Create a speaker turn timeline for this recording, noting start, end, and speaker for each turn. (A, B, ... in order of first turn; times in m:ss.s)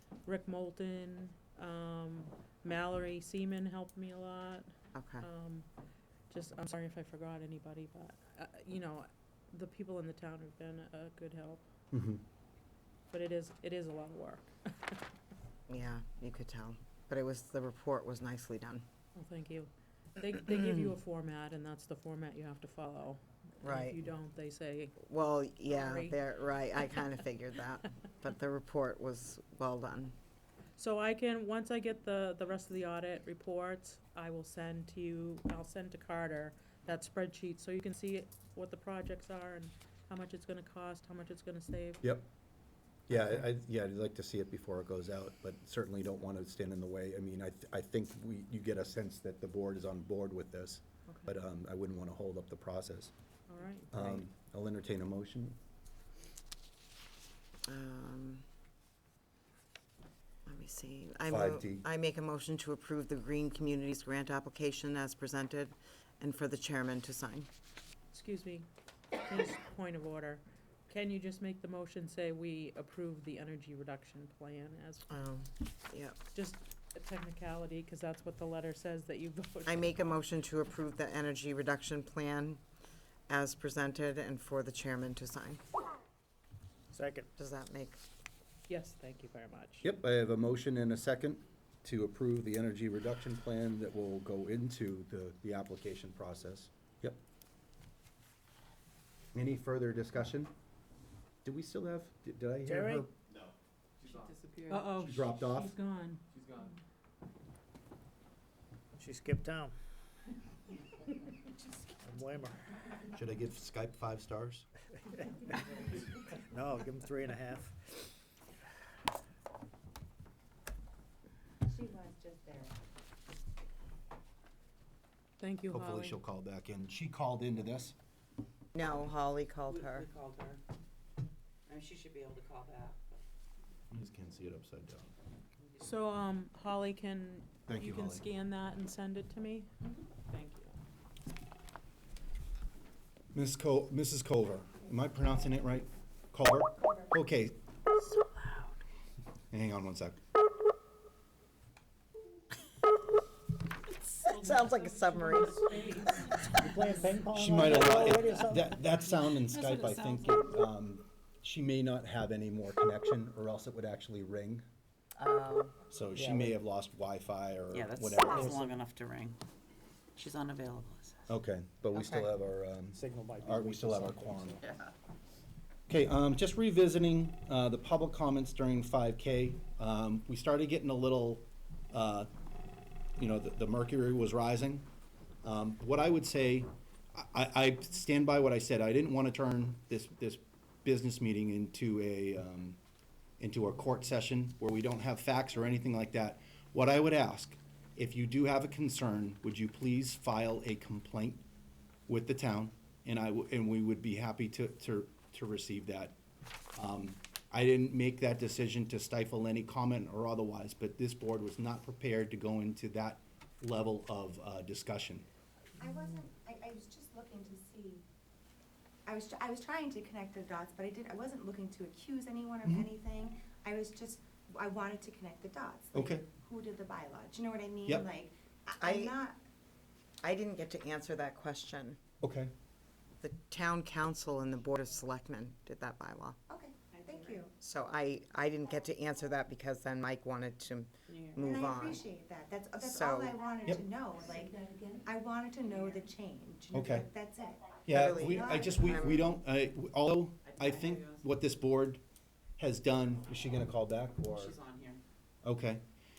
0:00.2-0:05.7 A
0:04.9-0:05.3 B
0:06.3-0:11.6 A
0:13.1-0:15.0 A
0:15.7-0:18.8 B
0:19.1-0:25.0 A
0:23.6-0:24.0 B
0:25.0-0:30.1 B
0:25.7-0:26.2 A
0:30.8-0:42.1 A
0:43.1-0:43.8 C
0:43.1-0:43.4 A
0:43.1-0:53.1 D
0:51.0-0:51.3 A
0:53.5-0:53.9 A
0:53.9-0:55.6 D
0:57.7-0:58.4 B
1:00.4-1:07.5 B
1:01.3-1:01.8 D
1:08.1-1:08.7 A
1:09.2-1:15.1 A
1:15.1-1:16.2 B
1:16.3-1:19.9 A
1:19.6-1:22.6 B
1:23.3-1:25.6 B
1:26.9-1:27.3 C
1:27.4-1:28.0 B
1:28.7-1:29.9 A
1:29.8-1:37.2 D
1:39.3-1:40.5 D
1:41.4-1:43.1 D
1:42.6-1:43.1 C
1:44.7-1:46.8 A
1:44.8-1:45.7 D
1:49.0-1:49.7 C
1:52.0-1:53.1 C
1:53.1-1:54.6 D
1:56.3-1:57.8 C
2:01.7-2:02.7 E
2:05.4-2:06.2 A
2:05.7-2:07.9 D
2:08.7-2:10.1 B
2:09.7-2:10.6 F
2:11.7-2:13.2 F
2:13.9-2:15.1 D
2:15.8-2:19.7 A
2:17.7-2:18.2 D
2:20.2-2:20.8 A
2:23.3-2:27.6 D
2:28.0-2:28.6 F
2:29.5-2:30.2 D
2:34.2-2:36.0 B
2:34.4-2:35.9 A
2:36.5-2:40.2 C
2:37.4-2:44.6 D
2:39.6-2:40.4 F
2:45.2-2:45.7 B
2:45.9-2:48.2 D
2:46.1-2:46.6 C
2:47.7-2:49.4 F
2:48.0-2:48.6 C
2:50.2-2:51.3 F
2:51.3-2:54.6 D
2:51.9-2:52.3 B
2:52.9-2:54.6 C
2:55.9-3:02.3 D
3:03.2-3:04.9 D
3:05.4-3:12.7 D
3:13.4-3:21.4 D
3:22.1-3:26.1 D
3:26.8-3:35.2 D
3:35.8-3:38.0 E
3:39.0-3:49.4 E
3:45.9-3:46.2 D
3:48.8-3:49.2 B
3:50.2-3:52.0 B
3:52.2-3:52.5 D
3:53.2-3:56.4 B
3:56.5-3:57.5 E
3:57.6-4:02.0 B
4:01.4-4:09.0 E
4:02.8-4:03.4 B
4:06.7-4:07.0 D
4:07.8-4:12.0 D
4:07.9-4:09.2 B
4:10.4-4:11.2 F
4:10.8-4:11.5 C
4:12.6-4:14.6 D
4:14.2-4:15.0 F
4:15.4-4:15.8 D